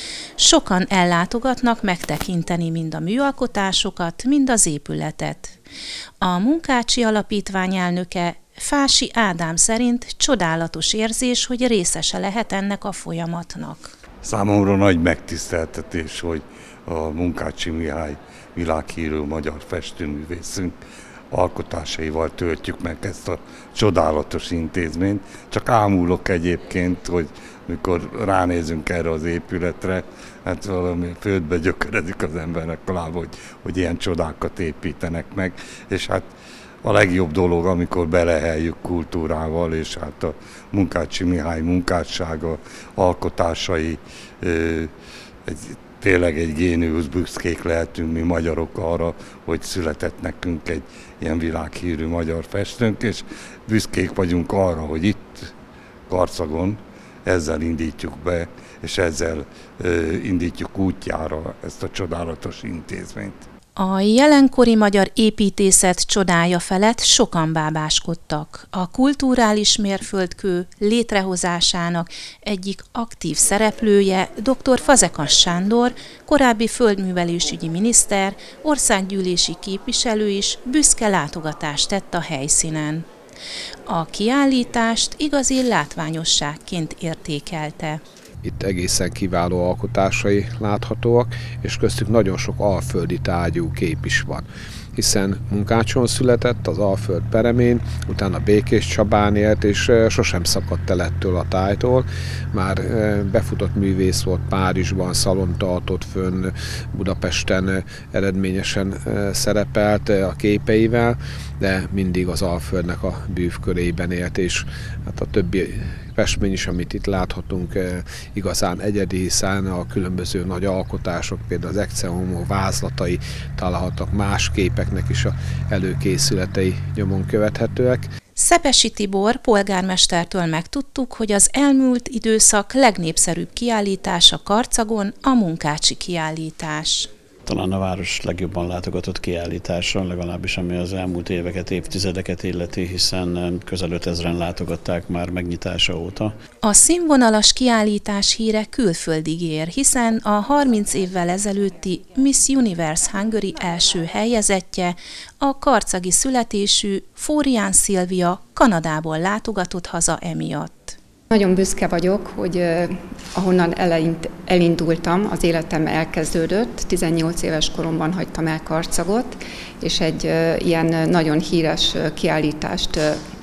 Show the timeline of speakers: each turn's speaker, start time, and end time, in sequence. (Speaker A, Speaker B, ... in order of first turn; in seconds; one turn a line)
Speaker A: 0.4-5.5
Speaker A: 6.2-13.9
Speaker B: 14.2-20.7
Speaker B: 21.3-36.3
Speaker B: 36.8-44.9
Speaker B: 45.5-55.5
Speaker B: 56.1-63.5
Speaker A: 63.8-83.0
Speaker A: 83.9-88.0
Speaker C: 88.4-128.1
Speaker A: 128.4-137.1
Speaker D: 137.5-146.3
Speaker A: 146.6-161.0
Speaker E: 161.3-173.2